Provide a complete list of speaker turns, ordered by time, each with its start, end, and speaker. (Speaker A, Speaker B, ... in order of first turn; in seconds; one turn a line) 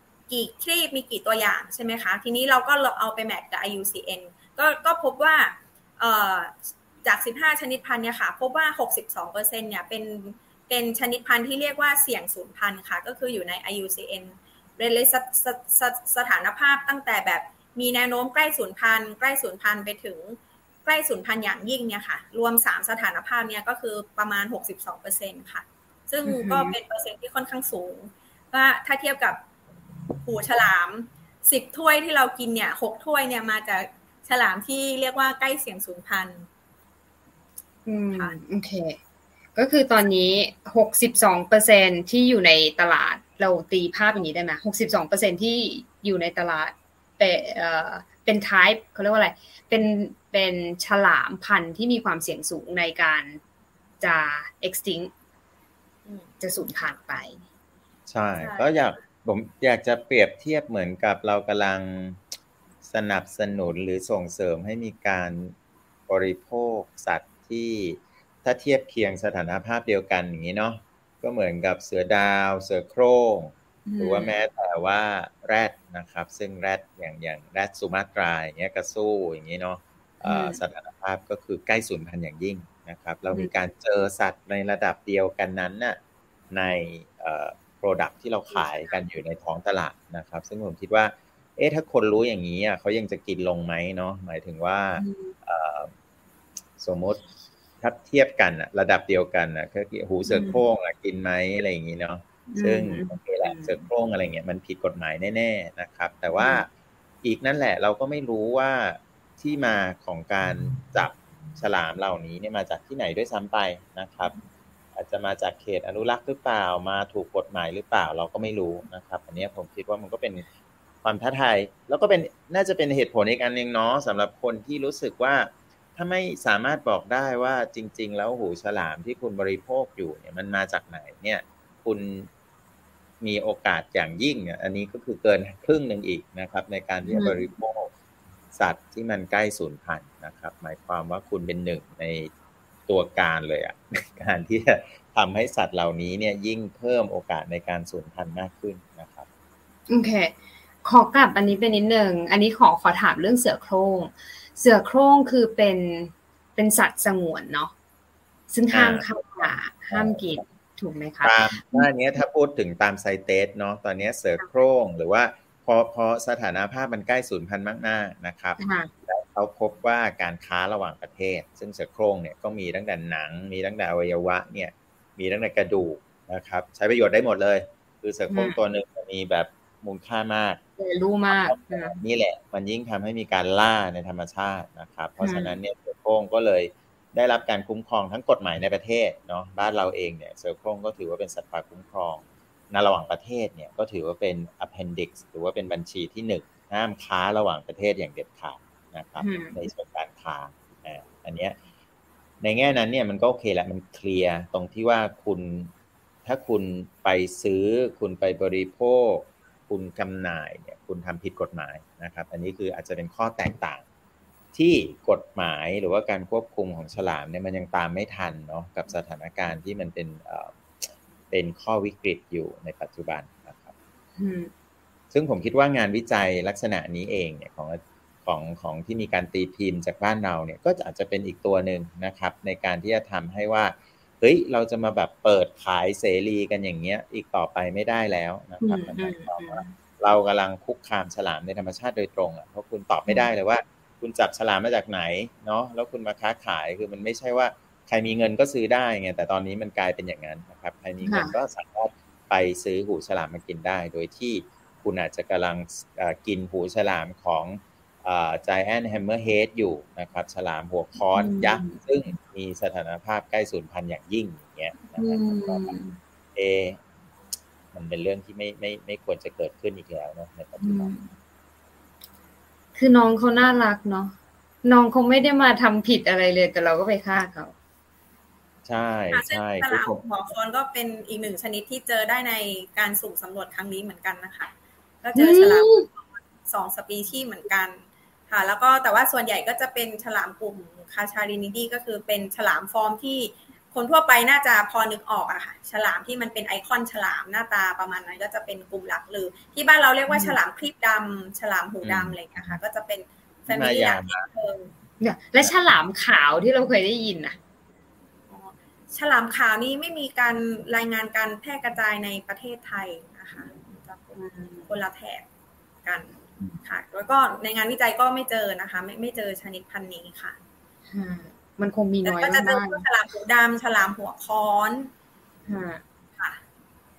Speaker A: 0.3-29.4
Speaker B: 26.2-26.8
Speaker A: 30.2-36.5
Speaker B: 37.9-39.0
Speaker B: 39.5-53.4
Speaker B: 54.0-55.1
Speaker B: 56.4-57.4
Speaker C: 58.1-62.2
Speaker A: 58.4-59.0
Speaker C: 62.8-65.5
Speaker C: 66.1-86.0
Speaker B: 73.9-74.4
Speaker B: 80.2-80.6
Speaker C: 86.5-95.9
Speaker B: 95.0-95.3
Speaker C: 96.8-97.2
Speaker C: 97.8-106.7
Speaker B: 100.3-100.6
Speaker B: 102.5-103.8
Speaker B: 106.4-106.6
Speaker C: 107.2-114.3
Speaker C: 114.9-120.5
Speaker C: 121.0-132.3
Speaker C: 133.2-137.9
Speaker B: 137.1-137.4
Speaker C: 138.5-142.3
Speaker C: 142.9-149.3
Speaker B: 149.9-157.7
Speaker B: 158.5-161.9
Speaker C: 158.7-159.1
Speaker C: 159.9-160.3
Speaker C: 161.2-180.6
Speaker B: 168.6-168.9
Speaker B: 178.3-178.6
Speaker B: 180.8-181.9
Speaker C: 181.3-201.6
Speaker B: 185.2-185.6
Speaker B: 199.2-199.6
Speaker C: 202.4-205.7
Speaker C: 206.2-213.8
Speaker C: 214.5-223.7
Speaker B: 224.2-224.5
Speaker C: 225.1-265.7
Speaker B: 238.6-239.8
Speaker B: 251.0-251.3
Speaker B: 261.1-261.8
Speaker B: 264.9-266.0
Speaker C: 266.3-266.8
Speaker C: 267.7-270.9
Speaker B: 270.6-271.1
Speaker B: 272.7-277.5
Speaker C: 278.6-280.0
Speaker A: 279.1-304.7
Speaker B: 285.1-285.9
Speaker B: 300.1-300.4
Speaker C: 301.8-302.6
Speaker C: 303.5-304.3
Speaker B: 305.0-307.4
Speaker A: 308.3-314.1
Speaker B: 314.1-314.7
Speaker A: 314.7-315.2
Speaker A: 315.8-320.4
Speaker B: 320.9-322.8
Speaker A: 322.0-324.9
Speaker B: 325.5-325.8